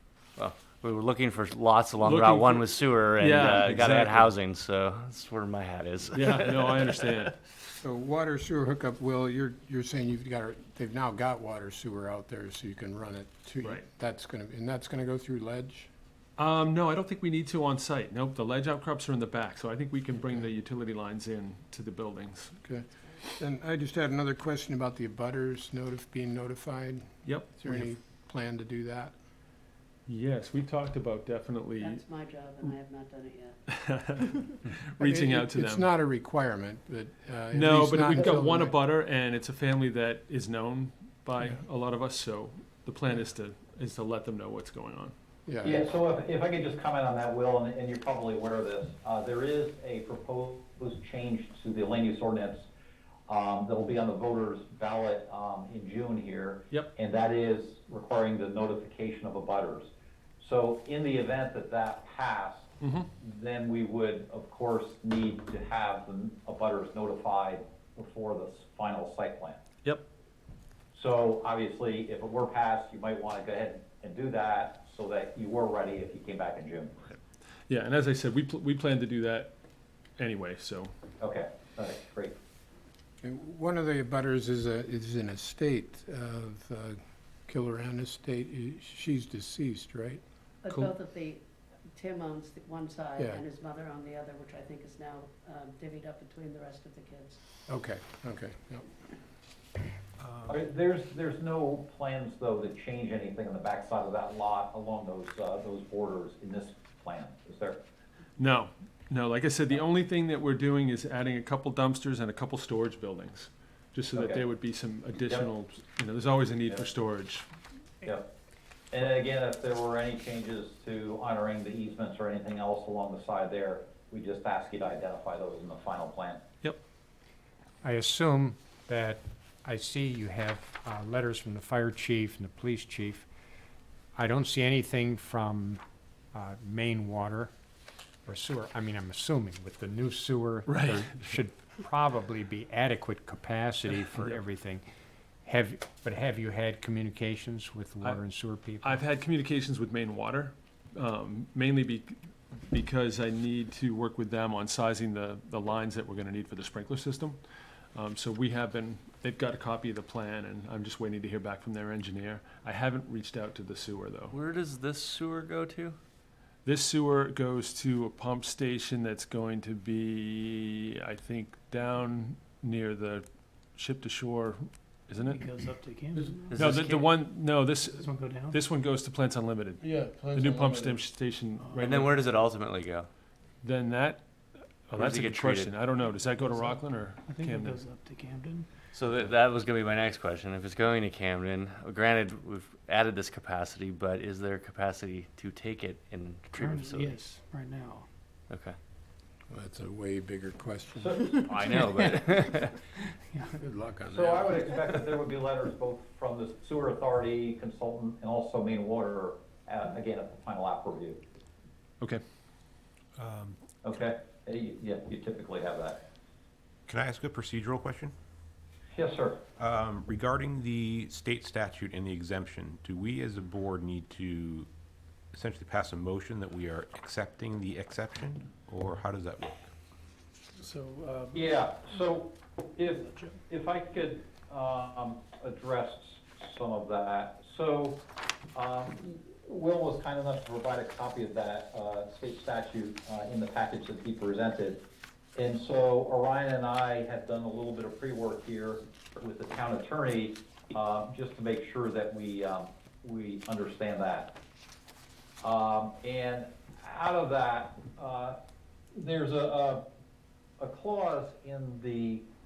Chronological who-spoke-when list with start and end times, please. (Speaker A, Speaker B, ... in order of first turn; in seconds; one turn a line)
Speaker A: 0.4-6.9
Speaker B: 2.0-4.3
Speaker B: 6.1-7.4
Speaker C: 7.8-15.9
Speaker B: 16.4-22.6
Speaker C: 22.6-29.1
Speaker B: 27.2-27.9
Speaker B: 30.1-32.0
Speaker D: 31.8-33.6
Speaker B: 33.7-35.9
Speaker C: 35.0-38.8
Speaker B: 37.5-45.1
Speaker C: 45.5-45.9
Speaker E: 45.6-52.7
Speaker E: 53.3-69.6
Speaker B: 62.8-63.1
Speaker E: 70.9-77.0
Speaker B: 77.7-79.5
Speaker B: 80.2-80.9
Speaker E: 81.2-82.3
Speaker C: 83.2-90.2
Speaker D: 90.6-91.4
Speaker B: 90.7-90.9
Speaker D: 92.0-97.4
Speaker C: 93.2-93.4
Speaker C: 97.7-98.9
Speaker F: 100.2-100.5
Speaker E: 100.5-107.8
Speaker B: 108.4-117.5
Speaker E: 114.1-114.4
Speaker E: 118.0-118.3
Speaker E: 118.9-126.4
Speaker G: 127.8-133.3
Speaker G: 134.2-135.8
Speaker G: 136.3-137.5
Speaker G: 138.2-144.8
Speaker B: 140.7-141.1
Speaker B: 144.1-144.4
Speaker G: 145.4-149.1
Speaker B: 148.8-152.2
Speaker B: 152.7-157.4
Speaker B: 157.9-164.3
Speaker A: 164.3-166.0
Speaker B: 166.7-175.8
Speaker H: 175.3-176.6
Speaker A: 176.5-177.1
Speaker B: 176.5-182.3
Speaker H: 178.1-178.6
Speaker A: 181.8-183.1
Speaker B: 183.6-184.3
Speaker B: 184.8-187.8
Speaker A: 185.0-186.0
Speaker H: 187.3-188.7
Speaker A: 188.9-197.2
Speaker H: 196.6-198.1
Speaker A: 198.5-198.8
Speaker C: 199.5-201.5
Speaker E: 201.0-201.5
Speaker A: 201.5-202.7
Speaker C: 203.6-205.1
Speaker E: 204.1-211.2
Speaker F: 213.2-213.6
Speaker E: 213.8-216.0
Speaker F: 216.9-218.2
Speaker E: 218.9-219.4
Speaker F: 219.6-224.7
Speaker F: 225.3-229.7
Speaker H: 230.8-231.1
Speaker E: 231.3-238.0
Speaker E: 238.6-244.8
Speaker E: 245.3-254.4
Speaker E: 255.4-258.4
Speaker E: 258.9-259.8
Speaker E: 260.6-262.2